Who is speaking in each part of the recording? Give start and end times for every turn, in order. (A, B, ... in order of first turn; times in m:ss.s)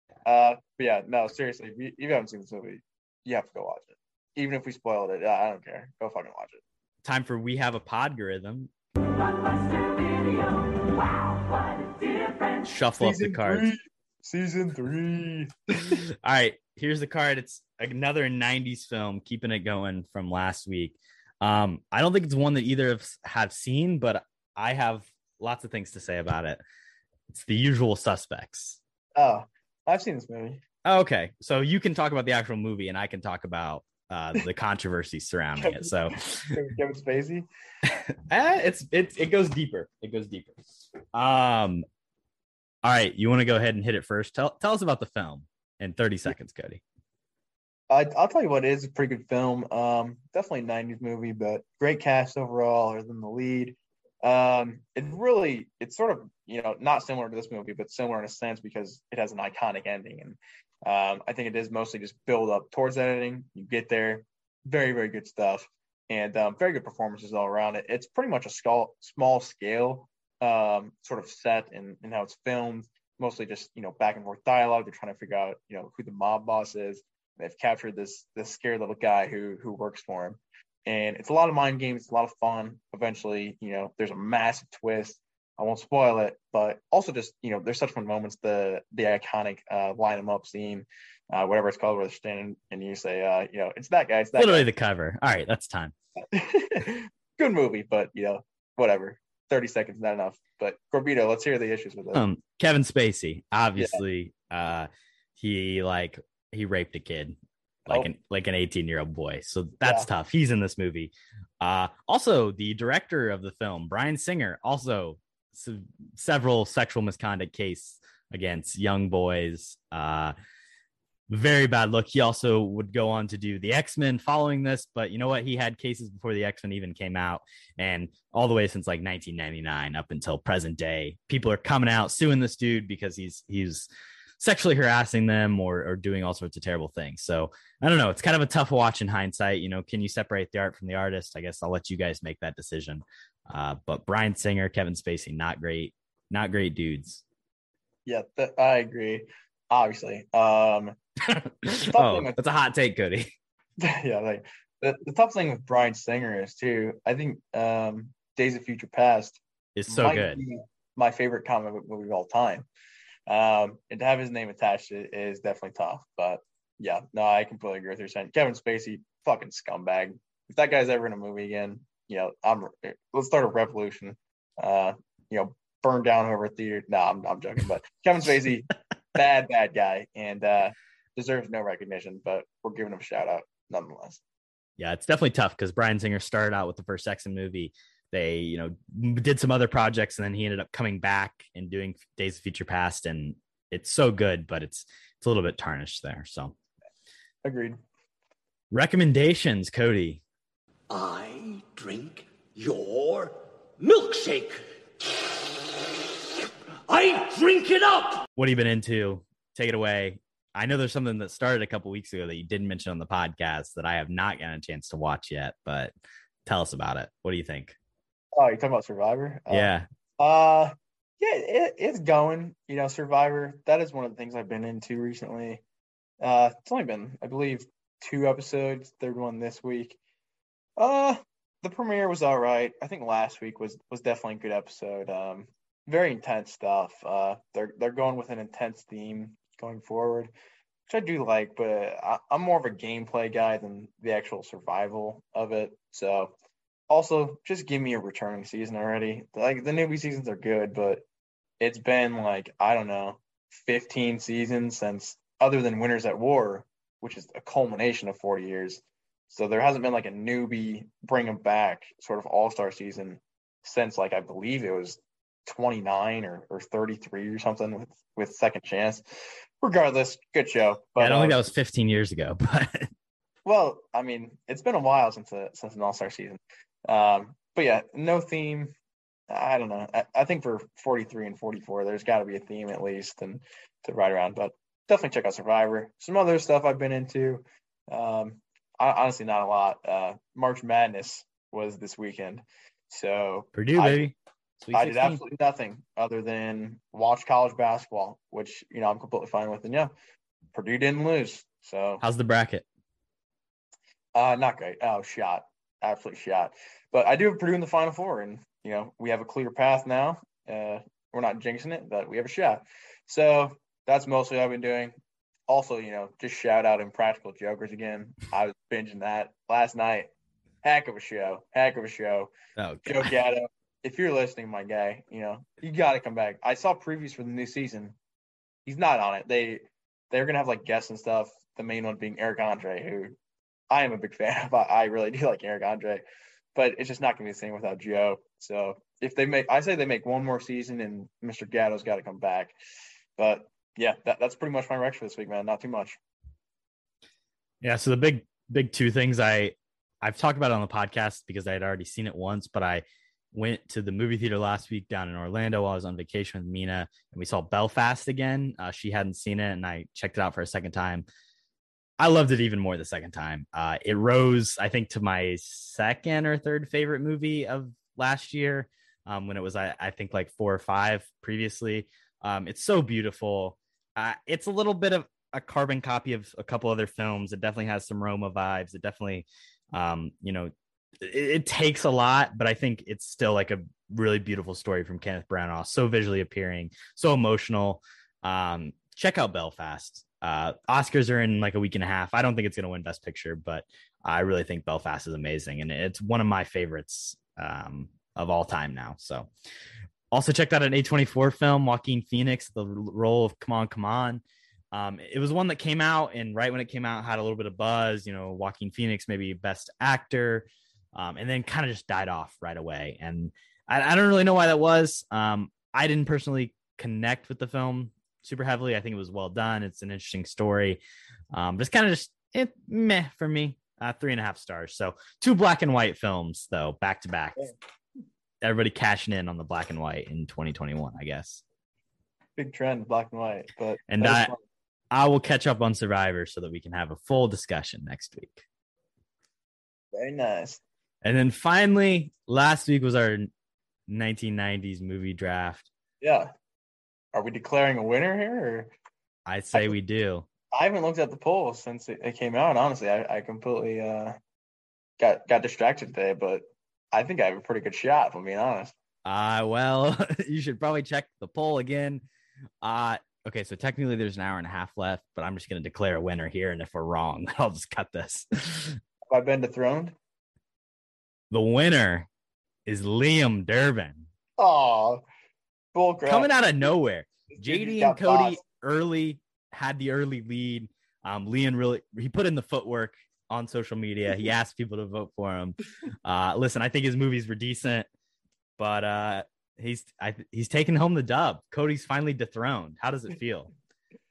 0:00.3-0:06.6 A
0:07.0-0:08.7 B
0:12.6-0:13.7 B
0:13.0-0:16.0 A
0:15.8-0:26.6 B
0:27.3-0:28.8 B
0:29.2-0:30.6 A
0:30.8-0:36.6 B
0:35.6-0:37.5 A
0:38.3-0:40.6 B
0:41.1-0:41.8 B
0:42.8-0:46.8 B
0:47.9-1:34.7 A
1:34.4-1:35.9 B
1:36.3-1:42.2 A
1:42.1-1:47.4 B
1:43.8-1:44.0 A
1:47.9-2:00.4 B
1:49.8-1:50.1 A
2:01.3-2:13.9 B
2:14.4-2:27.2 B
2:28.1-2:31.0 A
2:31.2-2:33.3 B
2:31.8-2:32.4 A
2:33.8-2:42.7 A
2:39.8-2:40.4 B
2:43.3-3:04.2 A
3:04.8-3:16.6 B
3:17.4-3:17.8 A
3:18.7-3:20.2 B
3:20.9-3:24.6 C
3:26.9-3:28.2 C
3:28.4-3:35.9 B
3:36.5-3:37.8 B
3:38.3-3:45.6 A
3:39.5-3:39.9 B
3:46.2-3:50.0 A
3:50.8-4:00.3 A
4:00.9-4:06.3 A
4:06.9-4:11.0 A
4:11.6-4:29.0 A
4:29.6-4:31.4 A
4:31.0-4:32.9 B
4:33.4-4:38.7 A
4:39.3-4:54.1 A
4:53.6-4:55.2 B
4:54.7-4:59.9 A
5:00.5-5:02.0 A
5:02.0-5:02.6 B
5:04.2-5:15.0 A
5:15.5-5:20.1 A
5:20.6-5:22.3 A
5:22.6-5:23.1 B
5:22.8-5:28.0 A
5:28.7-5:33.2 A
5:33.7-5:36.0 A
5:36.6-5:42.6 A
5:43.2-5:46.0 A
5:47.6-6:01.0 B
6:02.0-6:39.3 B
6:40.1-6:44.2 B
6:44.7-7:00.8 B
7:01.3-7:07.5 B
7:08.4-7:11.4 B
7:12.4-7:14.4 A
7:13.9-7:14.3 B
7:14.9-7:18.4 B
7:19.9-7:20.6 A
7:21.0-7:23.3 B
7:23.9-7:25.7 B
7:26.0-7:26.3 A
7:27.1-7:28.7 A
7:29.3-7:30.3 B
7:30.5-7:34.2 A
7:35.0-7:38.8 A
7:39.1-7:42.0 B
7:42.6-7:48.8 B
7:49.1-7:50.0 A
7:51.3-7:52.1 B
7:52.7-7:54.1 B
7:54.4-7:55.0 A
7:55.7-7:56.3 A
7:56.1-8:07.9 B
7:57.3-7:58.4 A
8:08.6-8:13.5 B